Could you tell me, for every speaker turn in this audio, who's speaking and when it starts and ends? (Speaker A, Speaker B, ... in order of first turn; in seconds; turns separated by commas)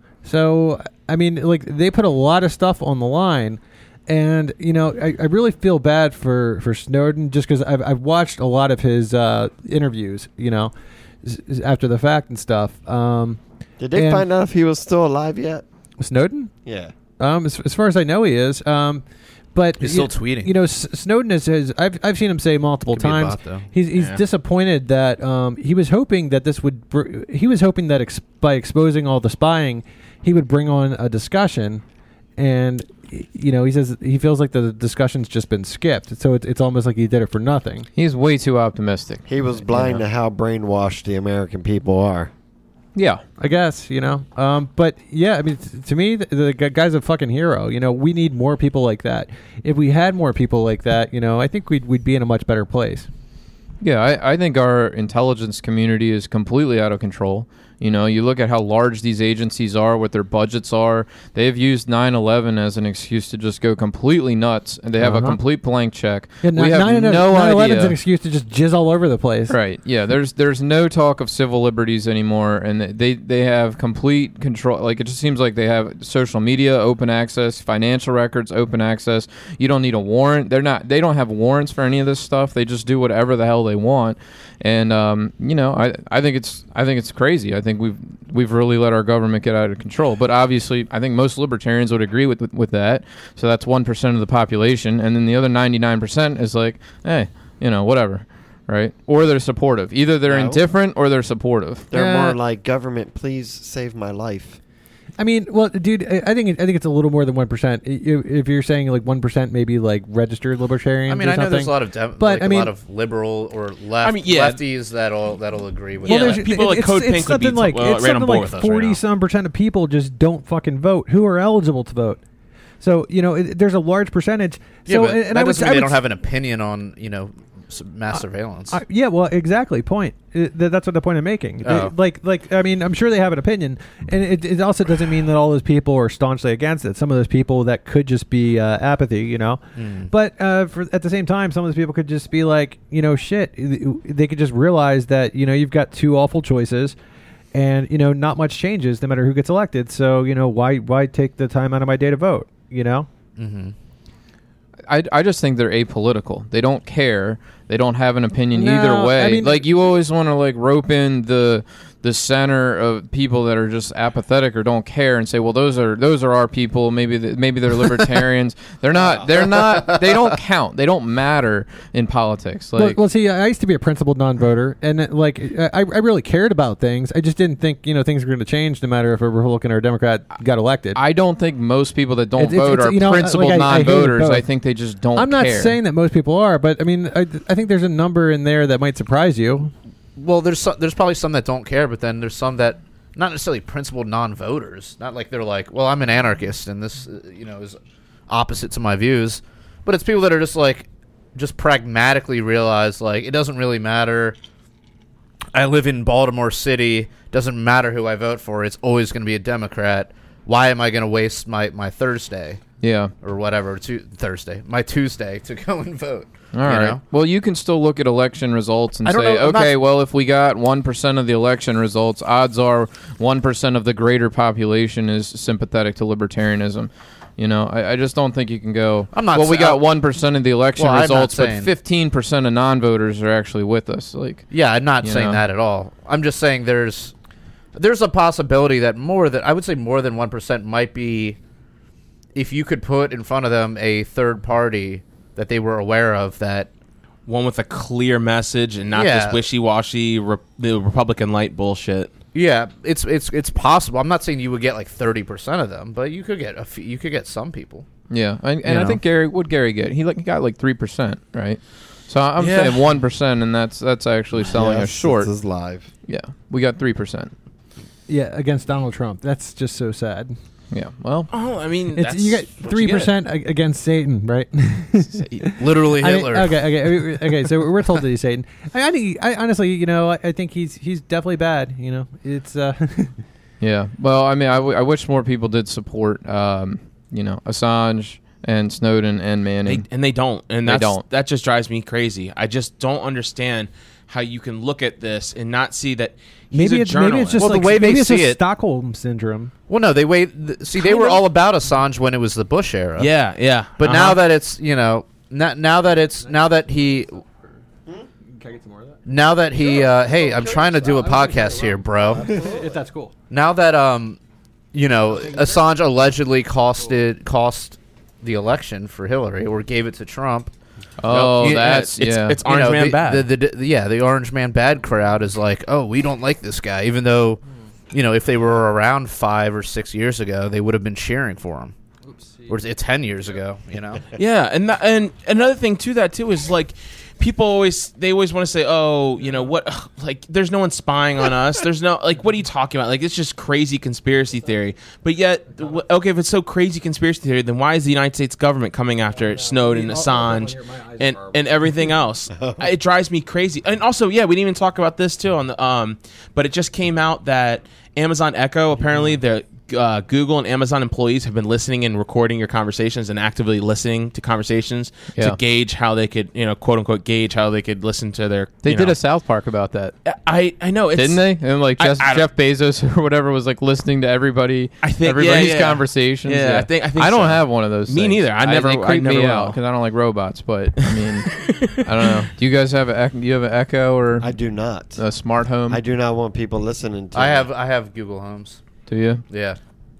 Speaker A: 0.2-10.7, Speaker A: 11.2-13.4, Speaker B: 13.8-15.6, Speaker A: 13.9-14.2, Speaker A: 16.0-16.5, Speaker B: 16.6-16.9, Speaker A: 17.2-19.0, Speaker A: 19.5-31.8, Speaker C: 19.8-20.5, Speaker C: 22.9-23.7, Speaker D: 23.9-24.2, Speaker A: 32.4-37.9, Speaker E: 38.0-40.0, Speaker B: 39.3-42.3, Speaker E: 42.9-43.2, Speaker A: 43.4-53.1, Speaker E: 53.8-68.0, Speaker A: 65.0-65.4, Speaker A: 66.4-69.6, Speaker E: 69.5-101.9, Speaker B: 100.3-100.6, Speaker B: 101.9-104.6, Speaker A: 101.9-102.4, Speaker A: 105.2-112.7, Speaker C: 111.1-116.4, Speaker D: 114.0-114.6, Speaker A: 116.0-122.2, Speaker D: 116.0-119.0, Speaker A: 122.8-126.0, Speaker C: 124.8-128.8, Speaker A: 128.1-146.9, Speaker C: 131.6-131.9, Speaker C: 139.8-140.1, Speaker A: 147.5-153.1, Speaker C: 153.4-153.7, Speaker E: 154.9-173.0, Speaker A: 158.5-159.6, Speaker A: 172.8-181.0, Speaker E: 180.9-185.8, Speaker A: 182.4-184.4, Speaker A: 185.1-189.7, Speaker C: 190.2-204.4, Speaker C: 205.5-212.6, Speaker E: 212.8-213.1, Speaker C: 213.2-217.0, Speaker E: 216.5-234.5, Speaker C: 219.0-219.7, Speaker C: 229.1-229.8, Speaker C: 230.8-231.7, Speaker C: 234.5-237.1, Speaker E: 235.0-235.4, Speaker C: 237.7-241.4, Speaker C: 242.3-246.7, Speaker D: 247.2-252.1, Speaker C: 248.9-249.4, Speaker C: 252.3-257.9, Speaker E: 258.1-265.3, Speaker D: 262.4-262.8, Speaker B: 264.4-265.9, Speaker E: 266.1-267.3, Speaker A: 268.1-270.3, Speaker E: 270.7-271.3, Speaker D: 271.3-273.1, Speaker A: 271.9-283.2, Speaker C: 275.6-277.1, Speaker E: 283.6-289.9, Speaker D: 289.6-297.4, Speaker E: 290.6-291.0, Speaker A: 296.5-299.5, Speaker C: 297.4-298.4, Speaker C: 299.7-303.1, Speaker D: 303.0-304.2, Speaker C: 303.8-307.1, Speaker A: 306.2-307.2, Speaker A: 308.3-309.0, Speaker C: 309.1-312.4, Speaker A: 310.2-313.1, Speaker B: 312.2-312.6, Speaker C: 313.3-314.2, Speaker C: 314.7-320.5, Speaker A: 315.1-315.6, Speaker E: 321.0-322.4, Speaker D: 321.1-323.3, Speaker C: 321.2-321.8, Speaker C: 322.4-327.4, Speaker C: 327.9-331.7, Speaker C: 332.5-334.0, Speaker D: 334.1-369.0, Speaker A: 349.3-351.5, Speaker E: 368.6-369.9, Speaker D: 370.1-372.2, Speaker E: 370.9-384.3, Speaker D: 374.8-379.6, Speaker D: 380.9-382.2, Speaker B: 384.2-385.0, Speaker E: 385.0-385.8, Speaker B: 385.7-387.5, Speaker C: 387.1-388.6, Speaker E: 388.9-389.2, Speaker C: 389.3-389.6